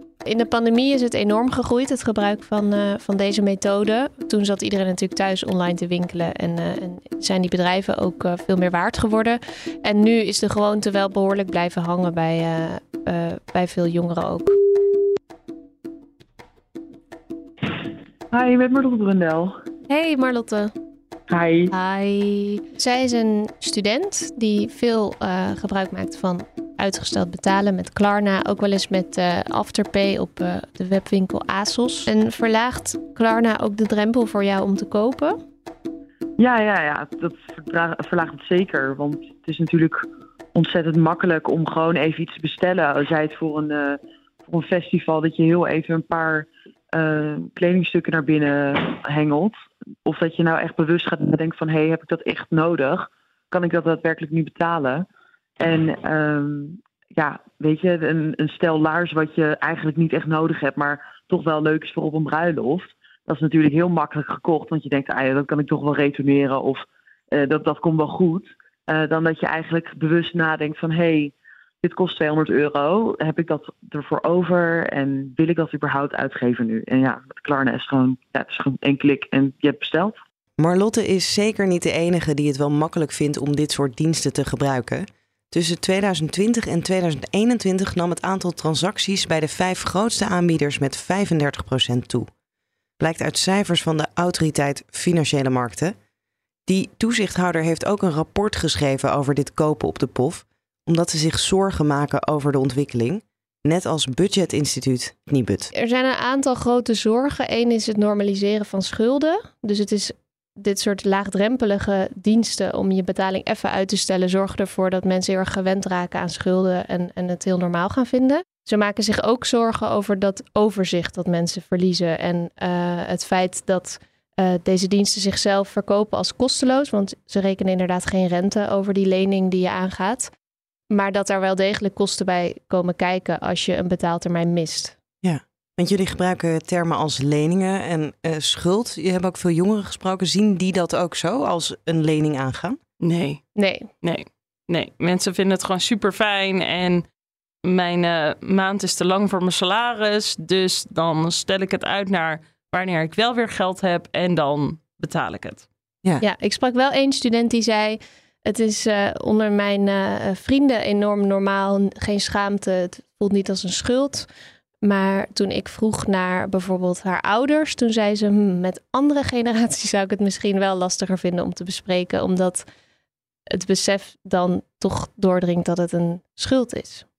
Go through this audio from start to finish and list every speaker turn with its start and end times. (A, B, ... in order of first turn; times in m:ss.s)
0:00.2-0:14.5 A
0:18.3-0:19.6 B
0:19.9-0:20.7 A
0:21.3-0:21.7 B
0:21.7-0:35.4 A
0:36.4-0:55.1 B
0:55.6-1:20.2 B
1:20.6-1:32.3 C
1:33.0-1:35.9 C
1:36.7-1:45.7 C
1:45.7-2:10.3 A
2:10.9-2:15.0 A
2:15.2-2:22.8 C
2:23.0-2:23.4 D
2:23.6-2:23.9 A
2:24.0-2:27.0 D
2:27.6-2:35.6 D
2:36.2-2:44.3 A
2:44.8-2:52.6 A
2:53.5-2:57.0 A